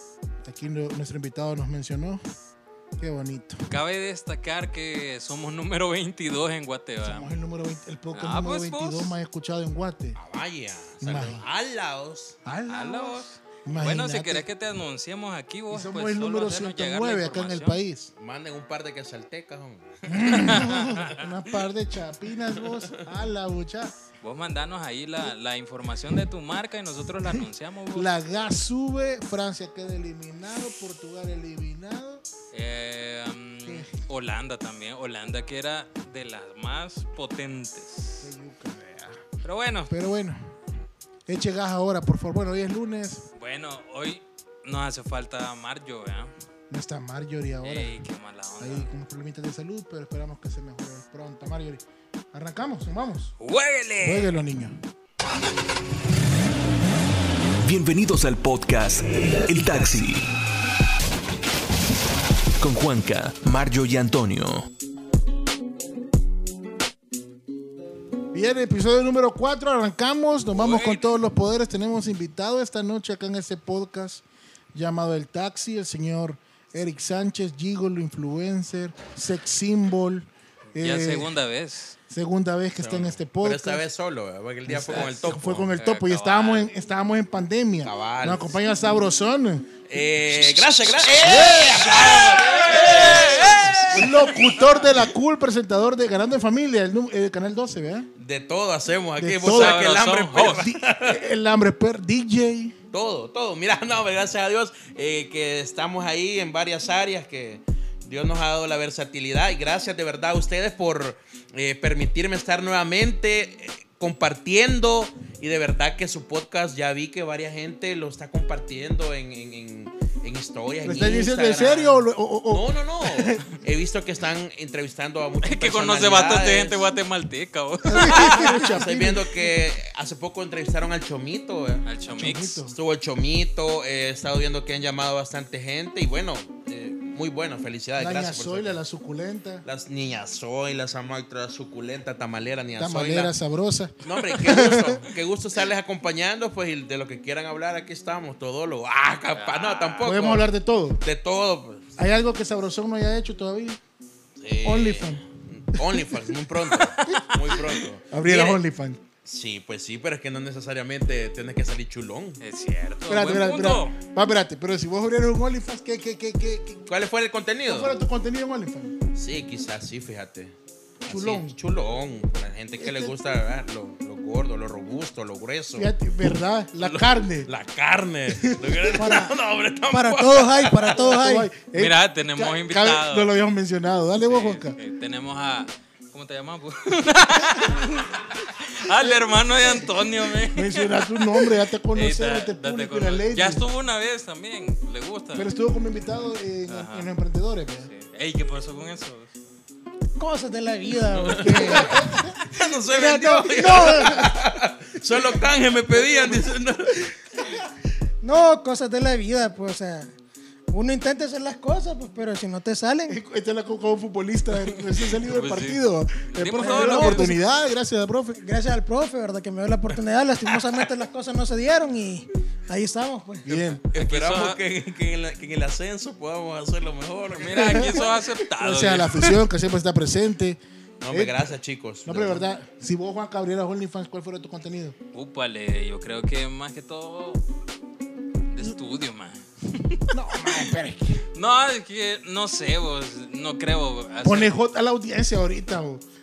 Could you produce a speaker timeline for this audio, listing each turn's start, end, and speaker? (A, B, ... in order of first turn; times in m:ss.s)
0:00.4-0:02.2 A
0:03.0-0:03.7 A
0:03.7-0:07.3 B
0:07.0-0:10.2 A
0:08.1-0:09.1 B
0:10.2-0:12.4 C
0:11.0-0:11.4 A
0:12.4-0:14.5 A
0:12.7-0:17.8 B
0:15.7-0:18.1 A
0:18.2-0:21.0 C
0:20.1-0:23.9 A
0:20.4-0:21.1 B
0:22.5-0:23.0 C
0:24.2-0:28.2 B
0:27.9-0:32.2 A
0:32.5-0:38.3 B
0:33.6-0:33.9 A
0:38.2-0:39.2 A
0:39.4-0:39.9 B
0:39.9-0:40.4 A
0:41.3-0:43.2 A
0:43.4-0:46.3 B
0:46.7-0:48.0 A
0:47.6-0:48.9 B
0:48.6-0:53.3 A
0:53.4-0:54.4 B
0:54.0-0:54.8 A
0:57.6-1:00.3 D
1:02.6-1:04.7 D
1:08.3-1:21.3 A
1:10.5-1:11.1 B
1:20.8-1:22.0 B
1:22.1-1:23.8 A
1:22.8-1:25.7 C
1:24.6-1:29.7 A
1:24.9-1:26.7 B
1:27.8-1:28.6 C
1:29.9-1:34.5 C
1:31.2-1:38.1 A
1:31.9-1:34.4 B
1:38.2-1:41.2 C
1:39.2-1:42.8 A
1:39.4-1:40.7 B
1:42.9-2:02.0 C
2:00.8-2:03.4 A
2:01.6-2:01.8 B
2:02.5-2:06.8 C
2:05.4-2:08.8 B
2:07.9-2:09.3 A
2:08.0-2:11.8 C
2:11.8-2:12.6 B
2:12.1-2:12.7 A
2:12.7-2:18.8 C
2:18.0-2:19.6 A
2:19.6-2:23.3 C
2:22.8-2:25.1 A
2:24.0-2:30.5 C
2:29.3-2:30.2 B
2:30.0-2:31.0 A
2:31.0-2:32.0 C
2:32.0-2:33.8 A
2:34.4-2:38.6 C
2:34.6-2:35.2 A
2:35.7-2:36.2 A
2:36.7-2:37.8 B
2:38.1-2:39.0 A
2:39.2-2:42.4 C
2:42.4-2:43.9 B
2:43.1-2:46.9 A
2:46.9-2:48.0 C
2:47.7-2:48.9 A
2:49.1-2:55.9 C
2:51.0-2:51.6 A
2:52.8-2:53.1 A
2:55.8-2:57.5 A
2:56.8-3:01.2 C
2:58.3-2:59.3 A
2:59.0-2:59.3 E
2:59.9-3:01.5 E
3:01.1-3:04.8 A
3:01.7-3:03.3 B
3:04.2-3:15.5 B
3:09.0-3:09.8 A
3:10.5-3:13.6 A
3:15.3-3:17.9 A
3:16.7-3:17.1 B
3:17.8-3:19.3 B
3:20.2-3:22.2 E
3:21.1-3:27.2 C
3:21.4-3:22.3 A
3:22.8-3:24.3 E
3:23.8-3:24.3 A
3:26.1-3:26.4 A
3:28.2-3:30.1 E
3:30.7-3:33.2 E
3:33.1-3:38.4 A
3:35.1-3:37.3 B
3:36.6-3:37.4 E
3:38.4-3:43.7 E
3:43.4-3:43.8 A
3:43.9-3:44.6 B
3:43.9-3:48.1 C
3:47.3-3:49.4 B
3:47.6-3:50.6 A
3:51.0-3:52.4 C
3:51.1-3:51.5 A
3:52.0-3:55.0 A
3:55.1-3:57.4 B
3:58.5-4:00.6 B
4:00.1-4:01.2 A
4:01.3-4:04.5 B
4:04.2-4:06.0 A